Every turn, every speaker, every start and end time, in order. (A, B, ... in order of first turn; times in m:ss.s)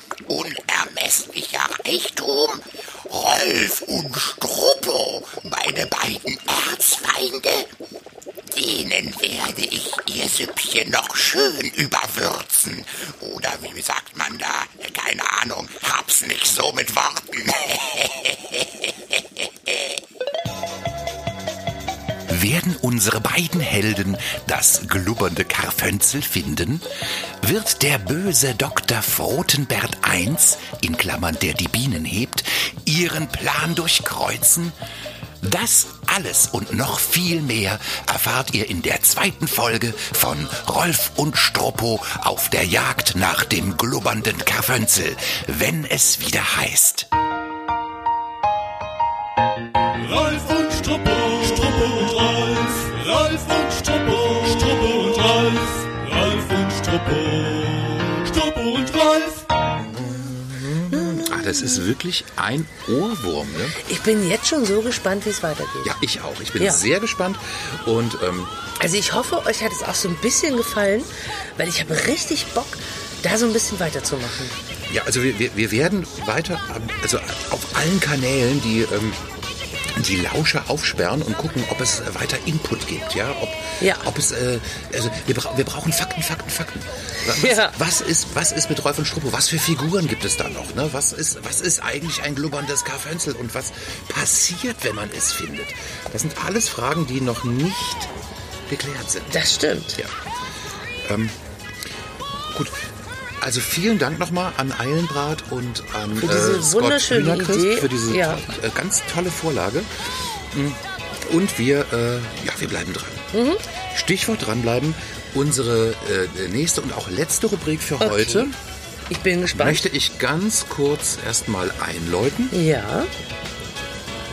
0:00.3-0:07.7 A
0:08.5-0:20.0 A
0:22.3-0:26.8 B
0:27.4-0:34.8 B
0:35.4-0:47.1 B
0:50.0-0:59.5 C
0:59.8-1:03.8 B
1:00.9-1:01.9 D
1:03.8-1:06.0 D
1:05.8-1:08.5 B
1:06.6-1:06.8 D
1:08.8-1:14.6 D
1:14.9-1:19.2 B
1:20.0-1:38.1 B
1:23.8-1:24.1 D
1:27.3-1:27.8 D
1:38.7-1:39.4 B
1:39.3-1:40.0 D
1:41.0-1:41.4 B
1:42.5-1:42.8 B
1:43.4-1:53.3 B
1:46.2-1:48.4 D
1:53.3-1:53.6 D
1:53.9-1:58.6 B
1:58.0-1:58.5 D
1:59.1-1:59.8 D
1:59.5-2:02.6 B
2:02.5-2:03.1 D